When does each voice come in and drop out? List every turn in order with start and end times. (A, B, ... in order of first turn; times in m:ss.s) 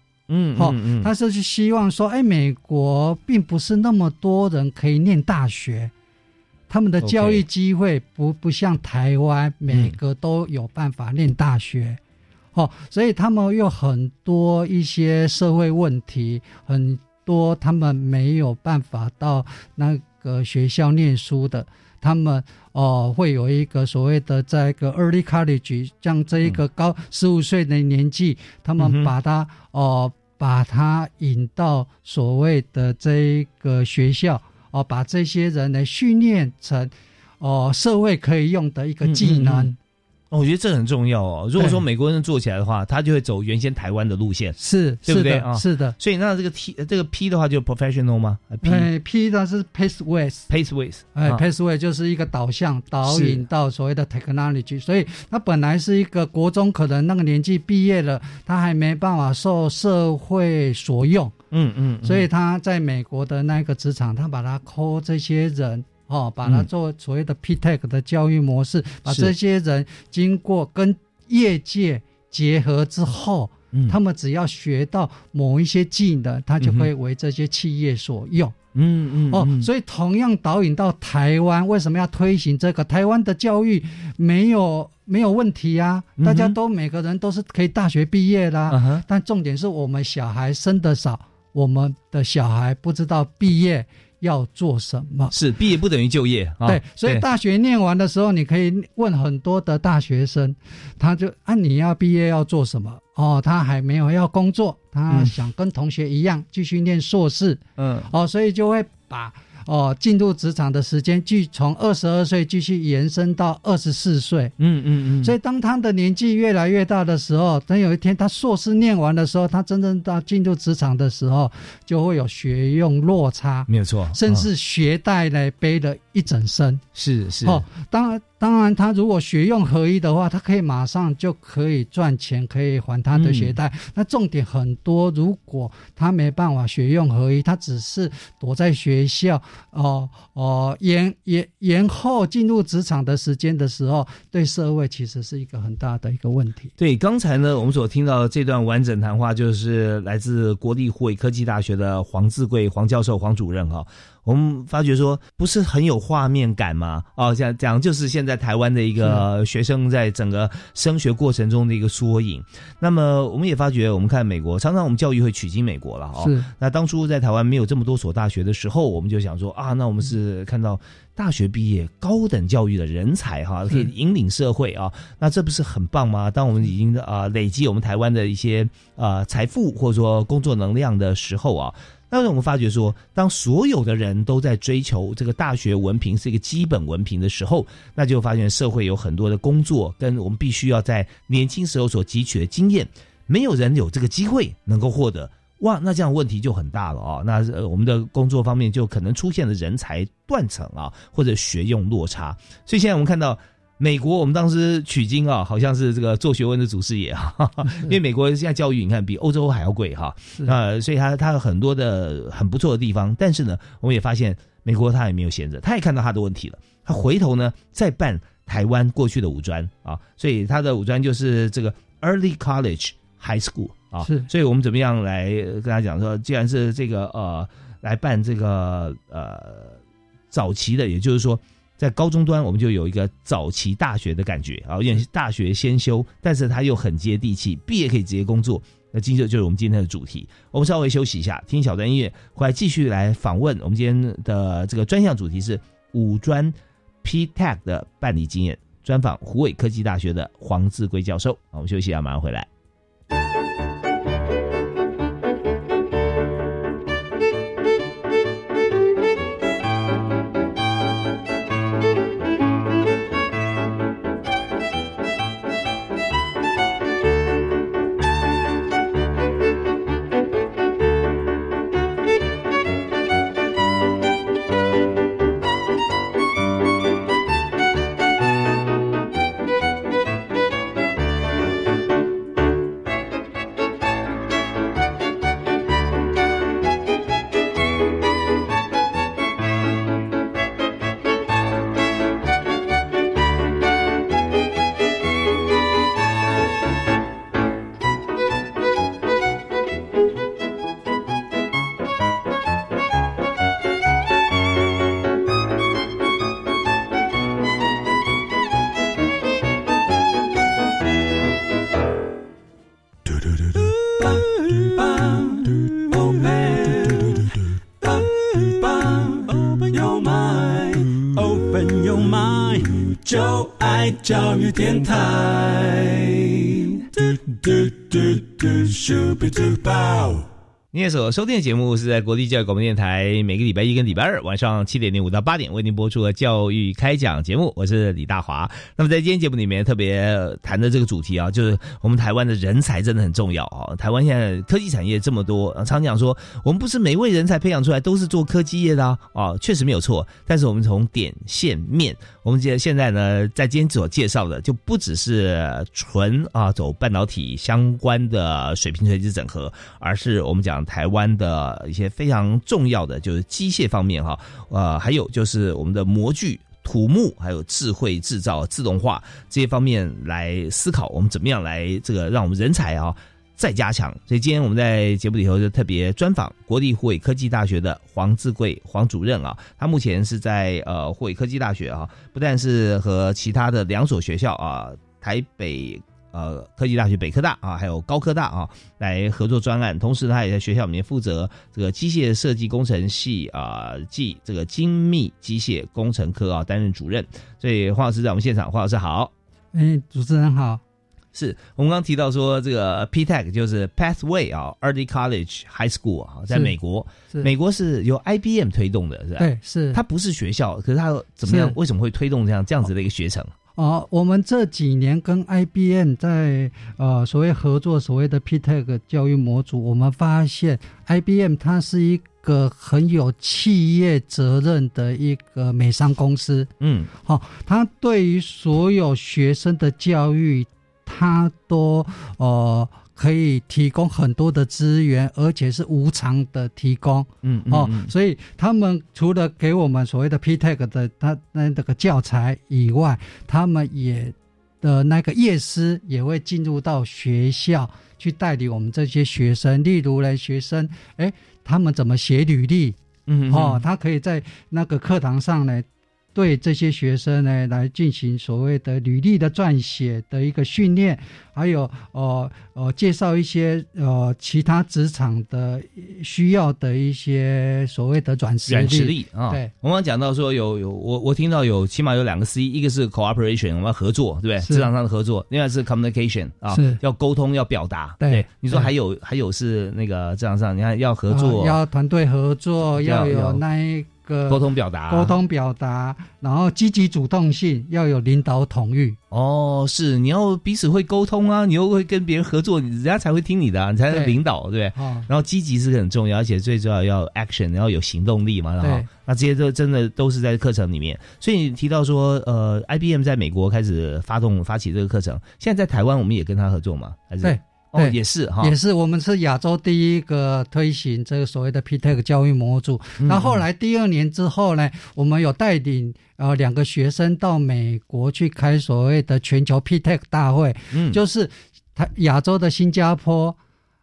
0:00.3-0:01.1 A
0:00.6-0:05.9 B
0:06.7-0:12.0 B
0:07.0-0:07.4 A
0:09.7-0:10.0 A
0:12.5-0:39.8 B
0:28.8-0:29.1 A
0:39.0-0:39.7 A
0:40.3-0:48.9 A
0:41.6-0:41.8 B
0:44.6-0:45.9 B
0:48.6-0:50.5 B
0:50.5-0:51.4 A
0:51.1-1:01.3 B
0:53.0-0:53.4 A
1:01.5-1:02.3 A
1:02.0-1:18.6 B
1:09.1-1:09.3 A
1:16.6-1:16.9 A
1:18.8-1:19.7 A
1:19.3-1:35.3 B
1:26.2-1:26.6 A
1:28.7-1:29.0 A
1:35.3-1:37.2 A
1:36.6-1:54.5 B
1:47.8-1:48.1 A
1:54.6-1:55.4 A
1:55.2-2:06.8 B
2:03.7-2:04.5 A
2:06.9-2:07.6 A
2:07.4-2:26.7 B
2:13.1-2:13.6 A
2:26.8-3:49.8 A
2:46.2-2:46.5 B
3:27.7-3:27.9 B
3:44.0-3:44.3 B
3:50.3-4:12.5 A
5:13.1-5:30.3 C
5:30.7-6:39.1 A
6:39.5-6:40.6 B
6:41.1-6:53.3 A
6:46.3-6:46.5 B
6:49.2-6:49.8 B
6:51.2-6:51.5 B
6:53.6-7:32.8 B
7:06.6-7:06.9 A
7:17.2-7:17.9 A
7:33.1-7:33.6 A
7:33.3-7:49.5 B
7:48.5-8:01.6 A
7:54.4-7:54.7 B
7:56.5-7:56.8 B
7:58.0-7:58.7 B
8:01.1-8:09.0 B
8:02.8-8:03.4 A
8:04.3-8:05.1 A
8:09.1-8:28.5 A
8:13.9-8:14.1 B
8:14.8-8:15.1 B
8:18.6-8:18.9 B
8:27.2-8:43.4 B
8:33.0-8:33.4 A
8:40.7-8:41.0 A